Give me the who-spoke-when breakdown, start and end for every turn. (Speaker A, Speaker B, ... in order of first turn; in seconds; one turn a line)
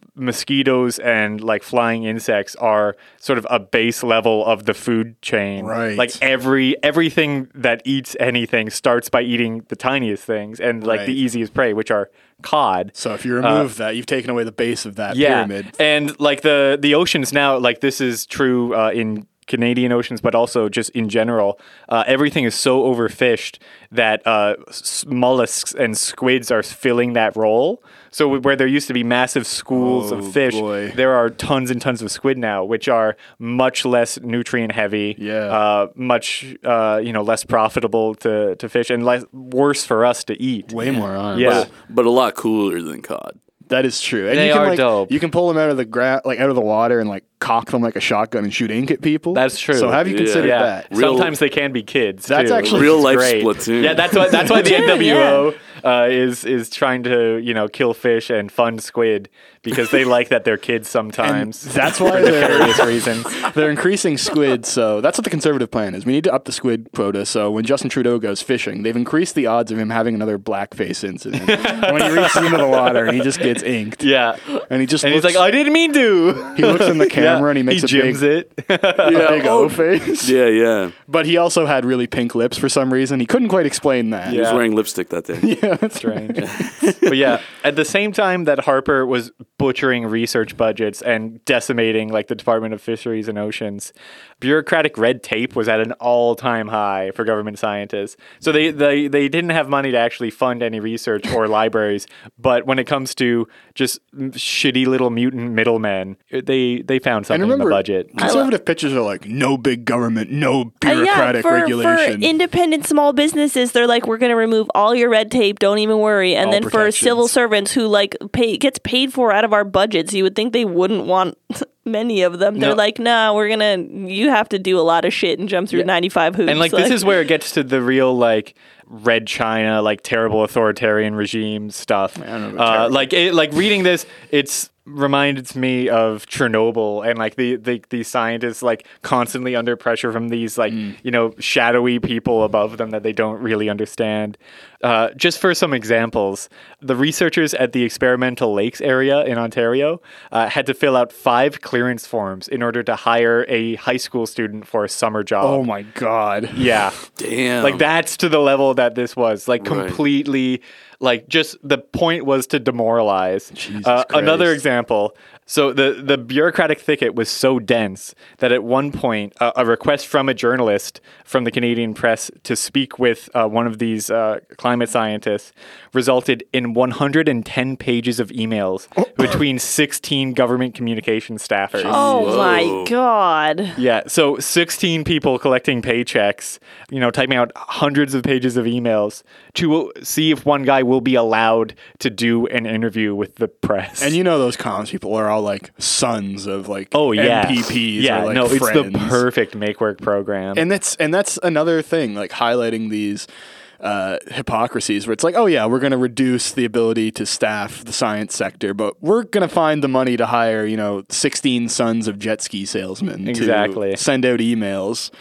Speaker A: 0.1-13.7
Speaker B: 5.6-6.2
Speaker B: 10.8-11.2
Speaker B: 12.9-15.7
Speaker A: 15.1-40.7
Speaker B: 29.7-31.0
Speaker B: 35.2-35.6
Speaker B: 40.7-41.7
Speaker A: 41.3-41.7
Speaker C: 41.4-43.4
Speaker B: 43.7-50.9
Speaker A: 44.3-45.1
Speaker A: 49.3-63.5
Speaker C: 50.0-51.4
Speaker B: 52.3-53.1
Speaker C: 52.6-54.3
Speaker D: 54.5-55.4
Speaker B: 61.2-74.1
Speaker A: 71.4-73.4
Speaker A: 74.0-79.5
Speaker B: 74.7-75.4
Speaker B: 76.5-78.2
Speaker C: 79.0-80.9
Speaker B: 79.0-80.3
Speaker B: 81.1-84.6
Speaker A: 84.3-84.6
Speaker C: 84.3-85.5
Speaker B: 85.4-86.5
Speaker A: 86.0-86.4
Speaker C: 86.4-87.3
Speaker A: 87.0-108.4
Speaker B: 107.3-112.3
Speaker D: 108.2-108.5
Speaker D: 110.8-127.1
Speaker B: 116.4-117.3
Speaker A: 122.5-122.8
Speaker A: 126.4-155.6
Speaker B: 132.2-133.1
Speaker B: 140.7-140.9
Speaker B: 155.4-156.8
Speaker A: 156.6-157.0
Speaker C: 157.1-157.8
Speaker A: 157.6-182.3
Speaker C: 159.6-160.0
Speaker B: 163.5-164.6
Speaker B: 181.7-182.6
Speaker D: 181.9-183.8
Speaker C: 181.9-182.9
Speaker A: 183.8-194.2
Speaker B: 194.0-199.2
Speaker A: 196.9-200.6
Speaker B: 200.6-203.3
Speaker B: 203.8-215.1
Speaker A: 213.3-214.0